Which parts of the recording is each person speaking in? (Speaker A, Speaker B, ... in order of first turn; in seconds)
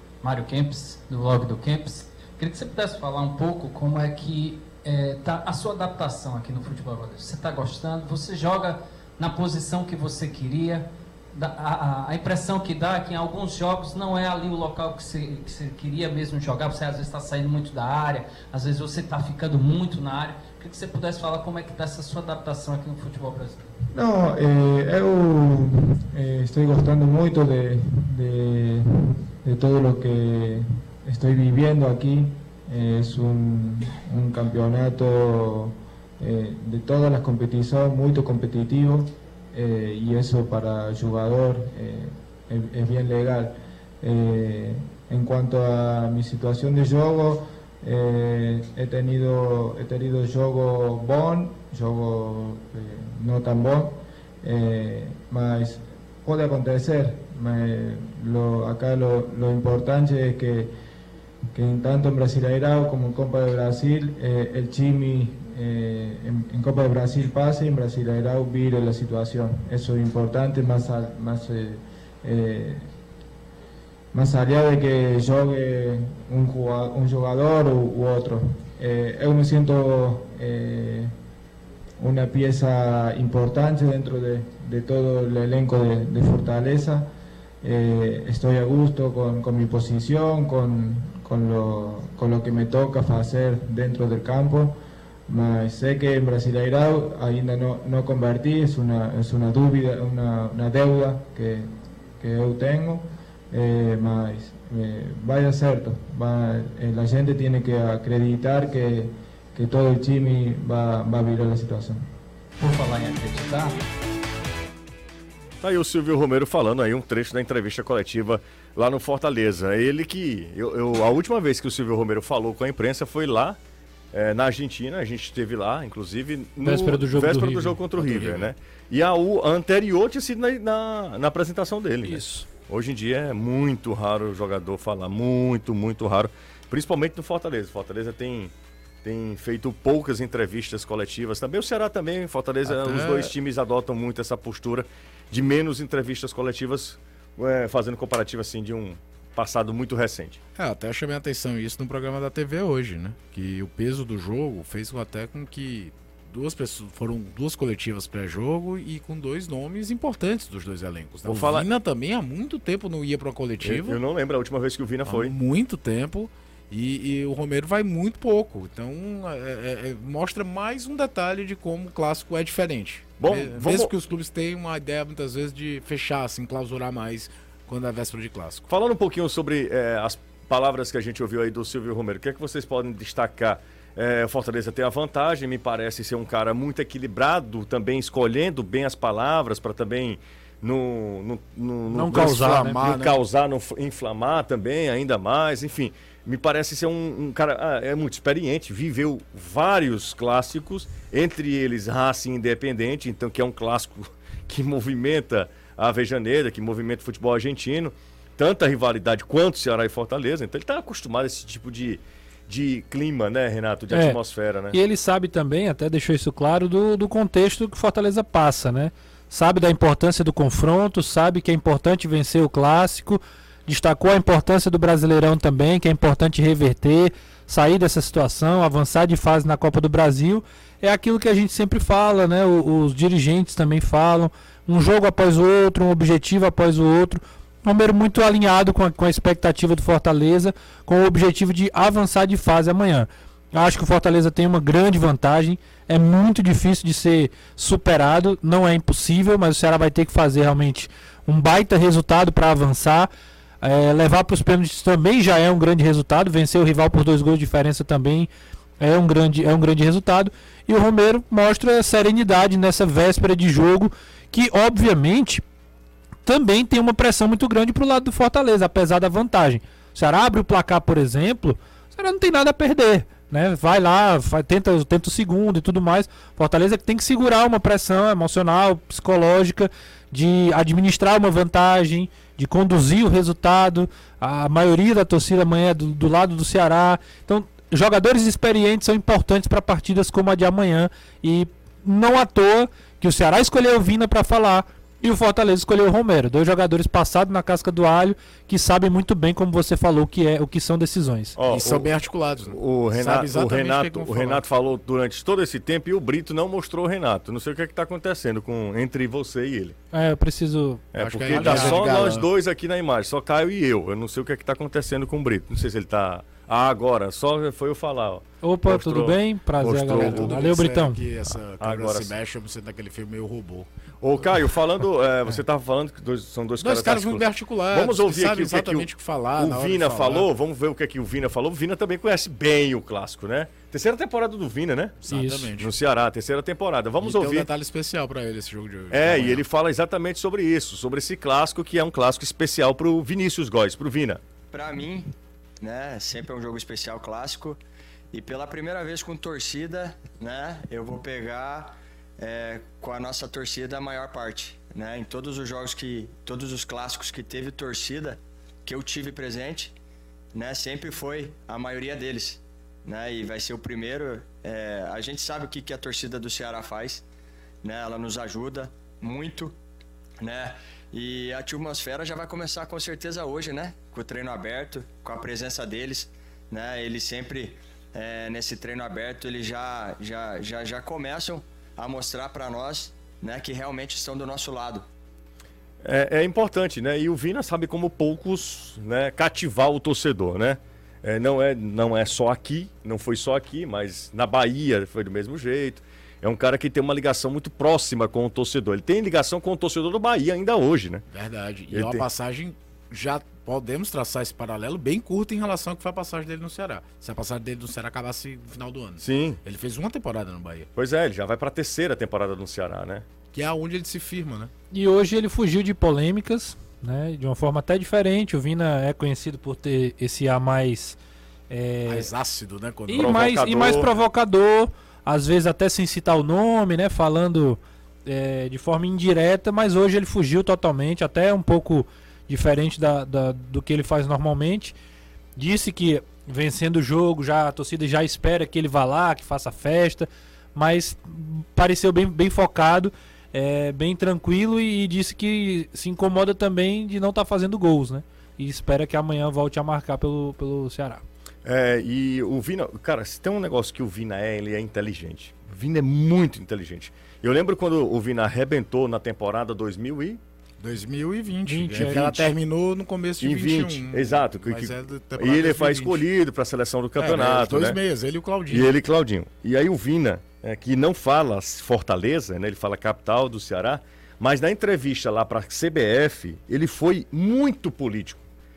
Speaker A: 0.2-23.6, 112.6-113.8
Speaker B: 23.9-60.7, 61.5-72.9, 74.1-81.1, 82.0-87.1, 87.6-112.0
Speaker C: 115.6-123.6, 124.1-138.5, 139.0-150.4, 161.2-161.7, 163.6-165.3, 173.2-173.9, 178.7-214.8, 301.4-301.9, 302.5-309.8, 310.9-320.4, 321.6-322.1, 324.0-335.0, 335.6-337.5, 338.9-344.2, 385.8-401.0, 401.7-402.1, 409.0-409.4, 410.8-413.0, 422.9-423.9, 451.4-460.2, 463.2-467.8, 468.5-478.2
Speaker D: 126.6-128.5, 132.0-132.5, 191.9-192.9, 213.9-214.2, 214.7-253.1, 253.6-265.4, 266.2-301.3, 309.9-312.1, 318.4-321.0, 335.1-335.5, 414.7-421.0, 421.5-422.1, 422.9-434.7, 435.4-451.0, 461.4-462.3
Speaker E: 142.7-143.3, 150.6-164.0, 165.1-178.7, 192.1-193.2, 301.4-304.4, 310.9-312.3, 319.9-323.7, 326.6-330.3, 335.0-335.7, 337.0-339.4, 401.1-410.7, 413.3-414.5, 421.9-423.1, 460.6-466.0, 467.0-468.8
Speaker F: 344.5-347.6, 348.1-359.7, 360.3-367.0, 367.6-369.5, 370.2-384.9